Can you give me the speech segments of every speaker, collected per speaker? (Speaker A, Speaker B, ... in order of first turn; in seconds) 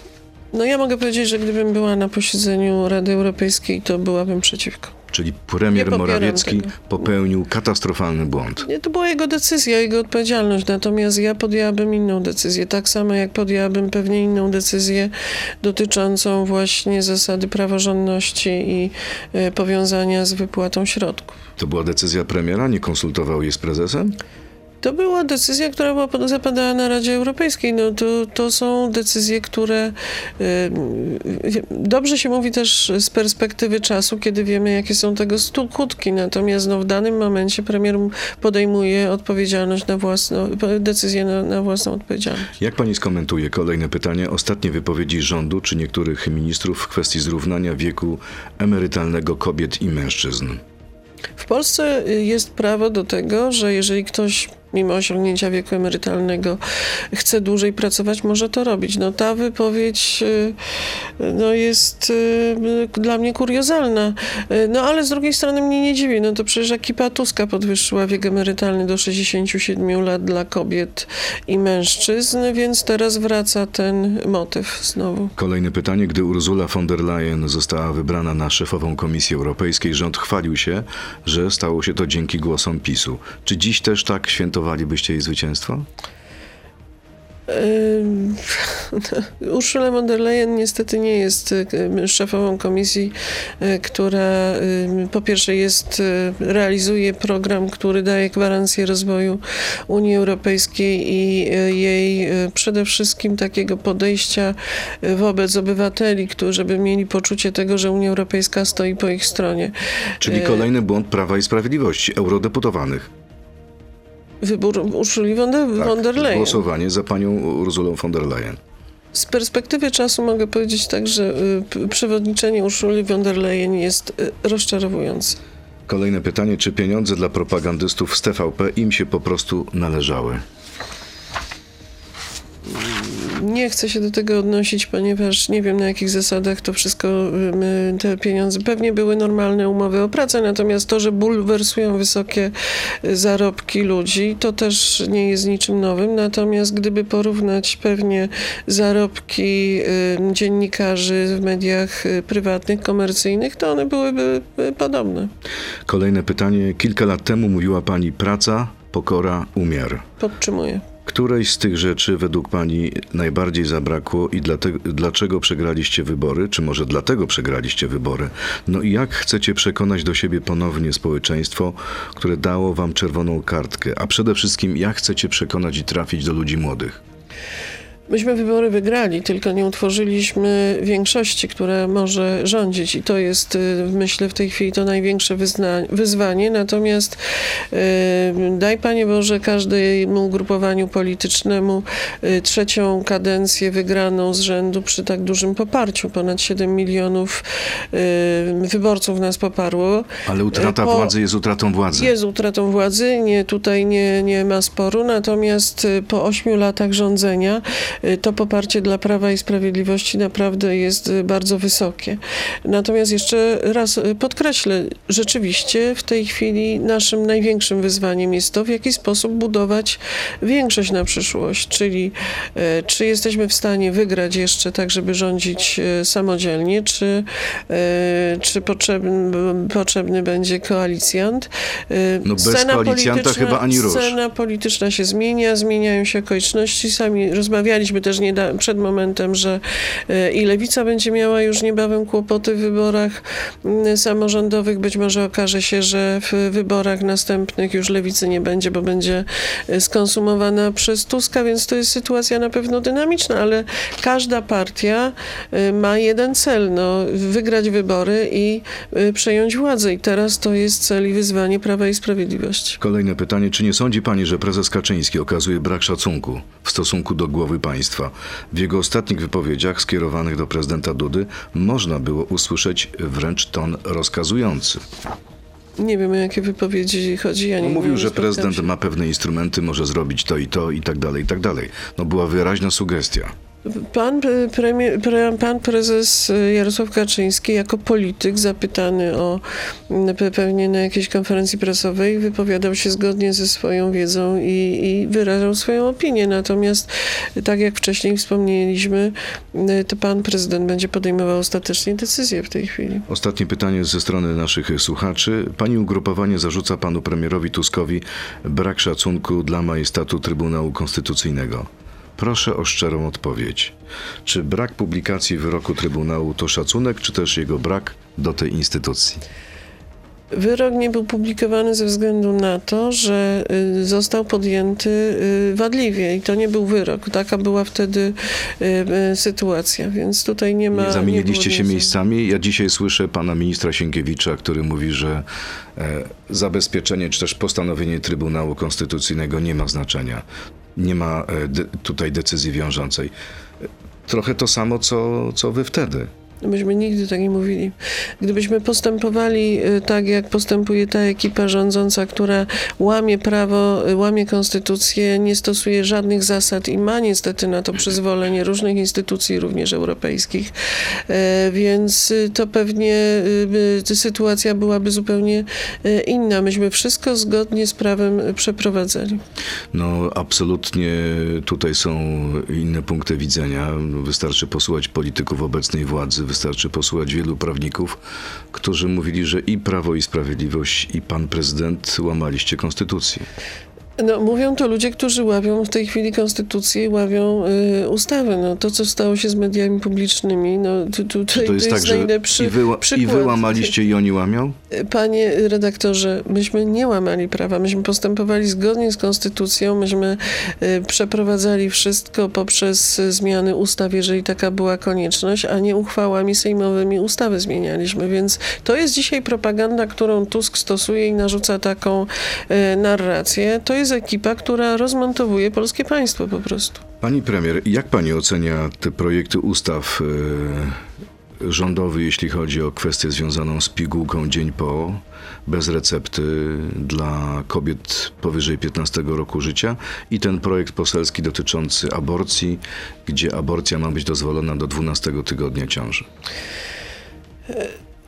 Speaker A: 0.5-5.0, 5.7-6.8, 8.6-21.4, 24.8-42.5, 51.4-56.6, 57.1-60.6, 61.2-75.3, 87.5-110.7, 114.4-116.6, 119.1-125.4, 132.7-142.5, 143.0-155.3, 160.2-160.8, 178.1-187.2, 187.7-201.1, 201.9-262.8, 275.8-278.7, 283.6-303.1, 320.3-331.9, 346.4-360.5, 361.1-369.2, 384.0-393.7, 394.7-416.8
Speaker B: 5.1-8.7, 21.6-24.2, 42.6-50.6, 75.4-85.9, 110.2-113.1, 115.8-118.6, 125.9-130.4, 155.9-160.1, 161.1-177.0, 200.3-202.1, 232.2-234.2, 262.8-274.8, 277.6-283.3, 303.1-319.2, 330.7-335.2, 335.8-346.1, 369.7-378.0, 378.5-383.3, 391.3-394.6, 417.0-420.8, 421.4-436.1